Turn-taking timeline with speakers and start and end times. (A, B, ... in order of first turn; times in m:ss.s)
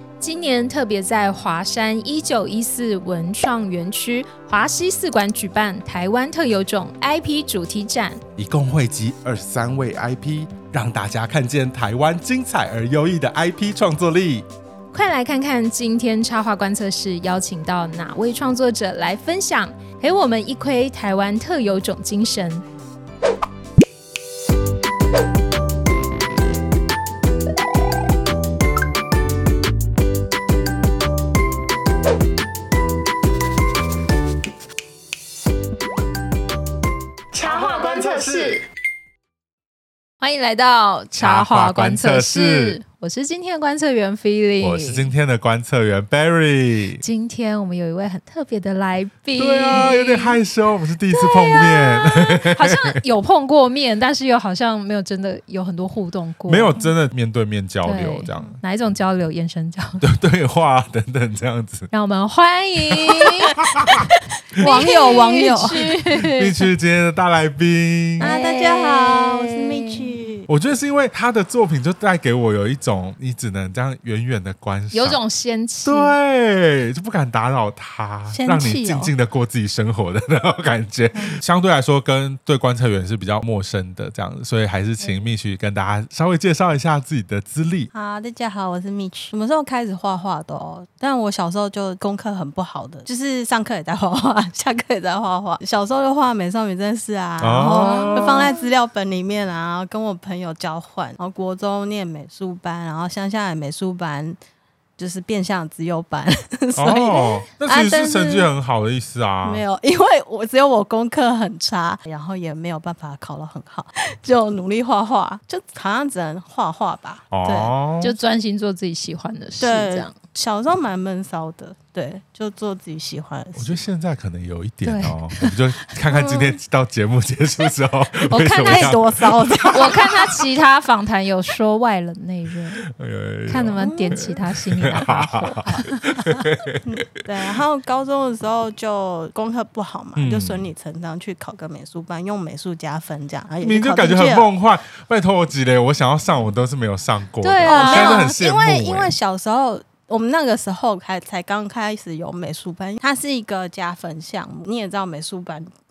0:00.2-0:08.2 A
0:08.4-0:14.5 B
0:14.9-0:22.6 A
0:37.4-0:38.6 B
0:40.2-0:45.1 A
0:41.2-0:42.8 B
0:44.6-0:47.0 B
0:47.0-0:50.4 A
0:49.4-0:53.0 B
0:51.1-0:56.9 A
0:56.5-0:58.6 B
0:57.8-1:00.0 A
1:00.0-1:01.9 B
1:01.9-1:03.6 A
1:03.5-1:04.0 B
1:04.5-1:06.6 A
1:04.6-1:05.9 C
1:06.2-1:08.3 B
1:08.2-1:10.0 A
1:08.2-1:10.5 C
1:10.5-1:15.2 B
1:14.9-1:16.1 A
1:15.8-1:27.9 B
1:18.3-1:19.1 C
1:27.9-1:44.4 C
1:37.4-1:38.5 B
1:37.6-1:38.2 A
1:45.0-1:48.5 C
1:46.8-1:49.6 B
1:49.4-1:57.7 C
1:57.3-1:58.2 B
1:58.0-2:00.1 A
1:59.6-2:03.8 C
2:03.6-2:10.2 B
2:04.8-2:05.6 A
2:06.1-2:06.6 C
2:08.3-2:09.0 A
2:08.6-2:10.3 C
2:09.7-2:12.8 A
2:12.9-2:16.8 B
2:13.5-2:16.0 A
2:13.8-2:14.4 C
2:16.8-2:24.5 C
2:20.2-2:20.7 B
2:23.6-2:29.1 B
2:27.4-2:28.3 A
2:27.6-2:35.7 C